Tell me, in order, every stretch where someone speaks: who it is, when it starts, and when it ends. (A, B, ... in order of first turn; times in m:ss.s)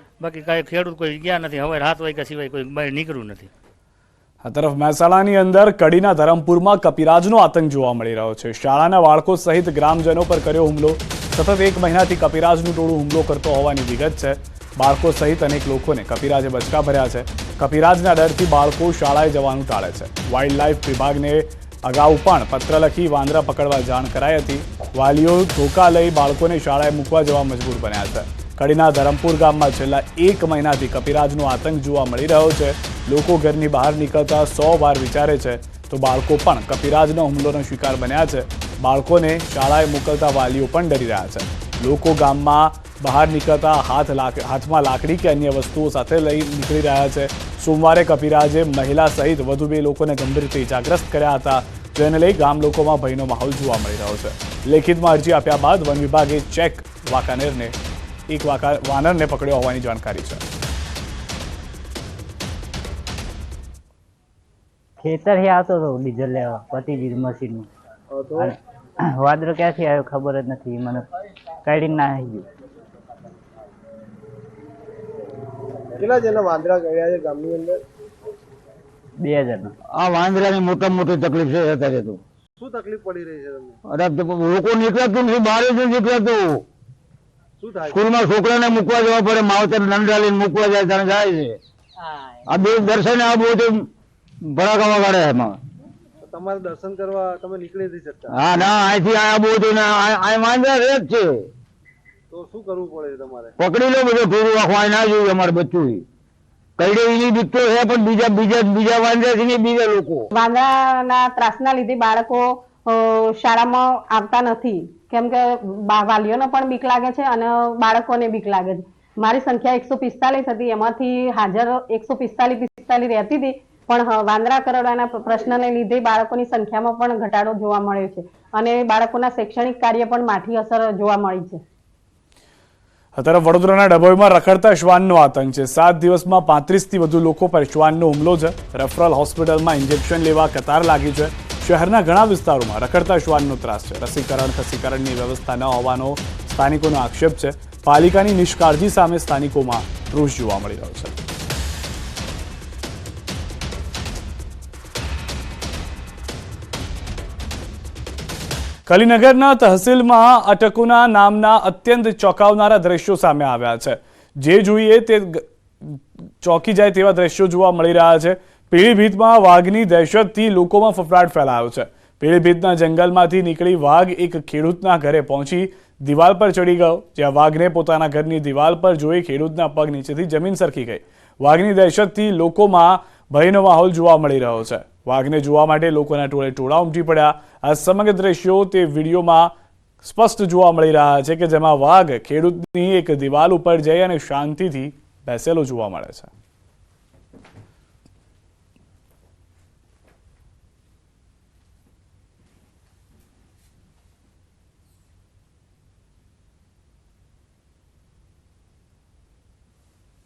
0:00.2-0:03.5 A
0:04.4-0:57.7 B
0:58.3-1:00.4 B
1:05.0-1:07.7 C
1:08.1-1:08.5 D
1:09.2-1:11.0 C
1:11.6-1:12.4 C
1:16.0-1:17.8 D
1:19.2-1:19.7 C
1:20.0-1:22.2 E
1:22.6-1:23.8 D
1:23.9-1:26.5 E
1:27.6-1:28.1 D
1:27.8-1:31.5 E
1:32.5-1:33.8 E
1:34.5-1:35.6 E
1:36.2-1:38.4 D
1:38.3-1:41.3 E
1:42.3-1:43.5 D
1:43.6-1:46.0 E
1:46.8-1:50.2 E
1:50.3-2:11.6 F
2:13.2-2:31.1 B
2:38.9-3:09.5 B
3:10.0-3:16.3 B